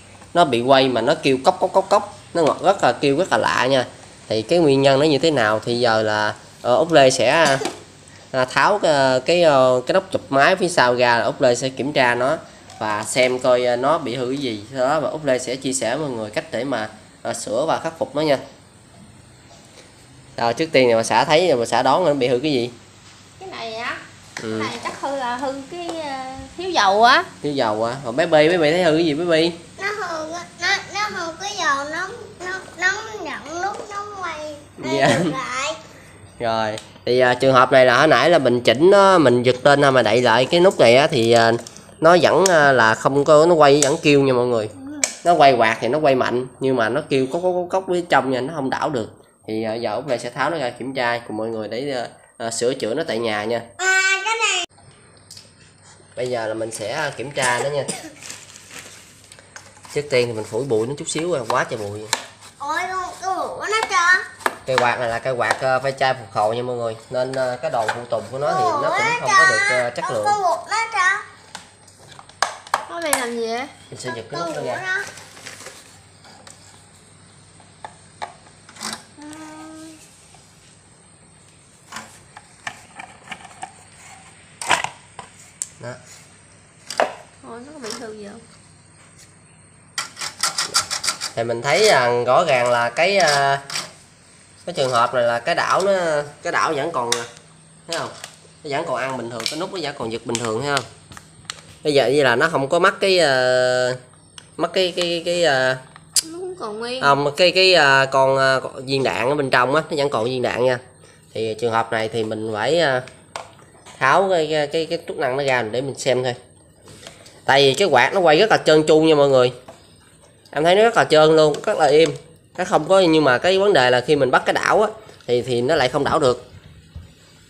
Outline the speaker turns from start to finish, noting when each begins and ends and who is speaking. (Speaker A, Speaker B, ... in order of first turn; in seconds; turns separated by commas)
Speaker A: 0.3-7.7, Speaker A: 8.3-18.4, Speaker A: 20.4-22.7, Speaker B: 23.4-27.3, Speaker A: 24.4-24.7, Speaker A: 27.4-29.6, Speaker C: 29.8-35.8, Speaker A: 34.8-35.4, Speaker A: 36.4-44.7, Speaker A: 45.2-53.6, Speaker C: 53.8-54.6, Speaker A: 56.1-57.9, Speaker A: 59.9-62.1, Speaker C: 62.6-64.2, Speaker A: 64.6-70.4, Speaker C: 68.4-71.2, Speaker B: 72.9-73.7, Speaker A: 73.9-74.8, Speaker C: 74.0-75.1, Speaker B: 79.2-80.0, Speaker B: 87.4-88.4, Speaker A: 91.3-93.6, Speaker A: 94.6-97.3, Speaker A: 97.9-100.9, Speaker A: 101.8-104.0, Speaker A: 104.6-105.8, Speaker B: 106.2-107.2, Speaker A: 107.0-113.0, Speaker A: 114.0-116.4, Speaker A: 117.5-119.5, Speaker A: 120.5-126.4